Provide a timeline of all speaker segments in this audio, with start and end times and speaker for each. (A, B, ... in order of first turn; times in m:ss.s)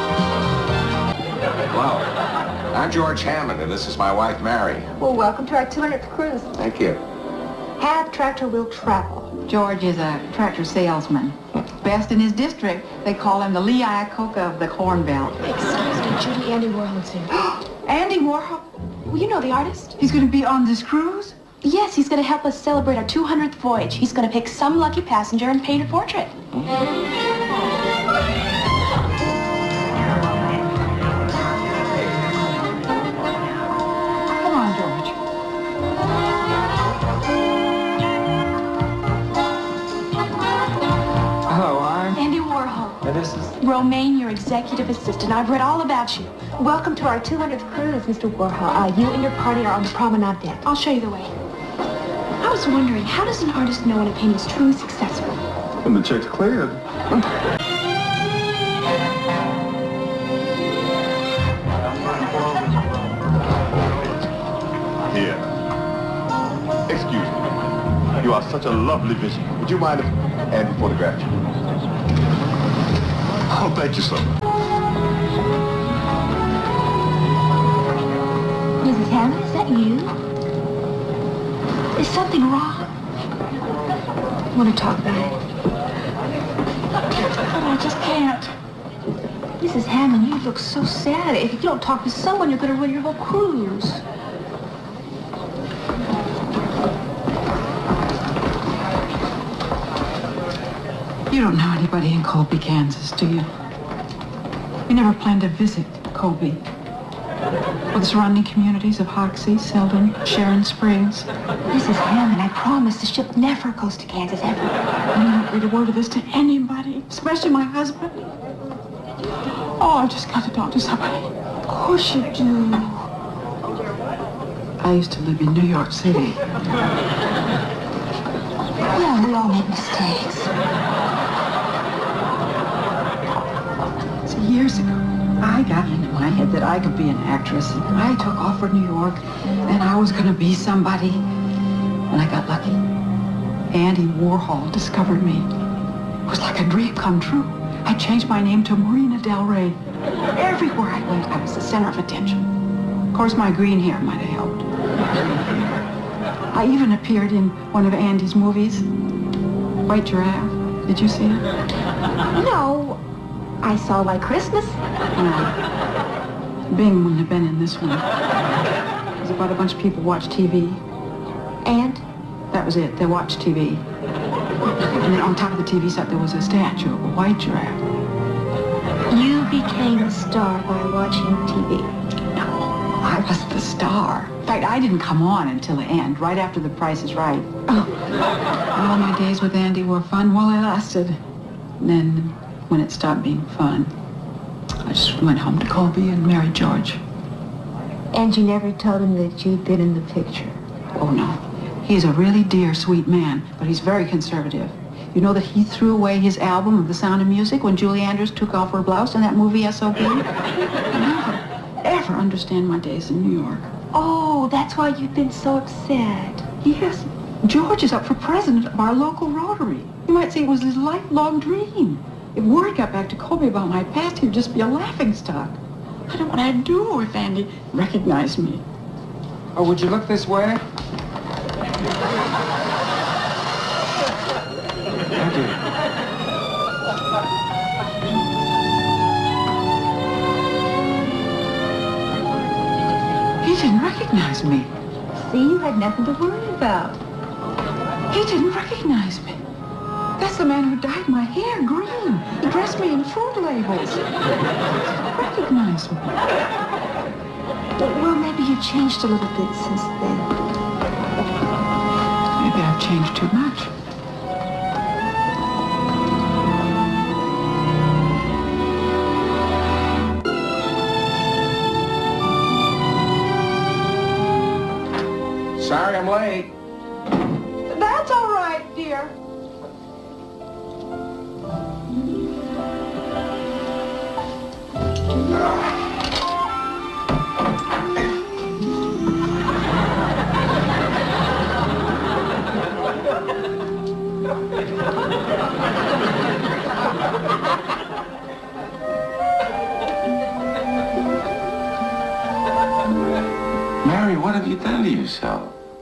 0:01.7-0:02.1 A
0:02.7-0:04.9 A
0:05.0-0:06.5 B
0:06.6-0:07.0 A
0:07.8-0:09.3 B
0:09.5-0:15.5 C
0:15.4-0:17.4 B
0:17.6-0:18.6 C
0:19.1-0:19.9 B
0:20.0-0:21.4 C
0:21.6-0:26.3 B
0:31.8-0:32.2 B
0:34.3-0:35.2 C
0:41.5-0:42.2 D
0:42.1-0:43.0 B
0:43.0-0:43.6 D
0:43.6-0:51.3 B
0:52.4-0:55.4 B
0:55.8-0:56.8 E
1:04.0-1:04.3 E
1:05.1-1:05.4 E
1:06.9-1:07.4 E
1:08.2-1:11.4 E
1:13.5-1:14.3 E
1:18.8-1:20.1 B
1:22.0-1:22.9 B
1:24.5-1:25.4 B
1:27.5-1:28.5 C
1:29.6-1:34.0 B
1:41.3-1:43.5 C
1:44.9-1:46.6 C
1:47.9-1:51.3 C
1:51.7-1:54.8 B
1:55.1-1:58.2 C
1:59.8-2:03.0 C
2:04.8-2:06.4 C
2:08.9-2:10.5 B
2:14.2-2:21.2 C
2:22.1-2:22.8 C
2:23.7-2:25.5 C
2:26.2-2:29.8 C
2:30.3-2:32.5 C
2:33.1-2:34.6 C
2:36.5-2:38.8 C
2:39.8-2:41.4 C
2:42.3-2:43.0 B
2:43.6-2:44.8 B
2:45.1-2:45.5 C
2:46.7-2:48.1 C
2:49.2-2:50.8 C
2:51.6-2:52.0 B
2:52.5-2:53.8 C
2:54.8-2:57.8 C
2:59.1-3:01.9 B
3:03.0-3:07.9 C
3:08.7-3:11.2 C
3:11.8-3:13.9 C
3:14.8-3:17.0 C
3:18.1-3:20.6 B
3:20.9-3:30.3 C
3:30.9-3:33.7 C
3:33.9-3:36.5 B
3:36.6-3:48.6 C
3:49.5-3:50.6 D
3:55.2-3:55.6 D
4:03.4-4:04.7 C
4:05.2-4:07.0 B
4:08.1-4:09.4 C
4:10.2-4:14.0 C
4:15.0-4:16.2 C
4:17.8-4:20.3 B
4:22.4-4:23.7 C
4:35.6-4:36.5 A
4:37.7-4:39.1 C
5:03.8-5:05.5 A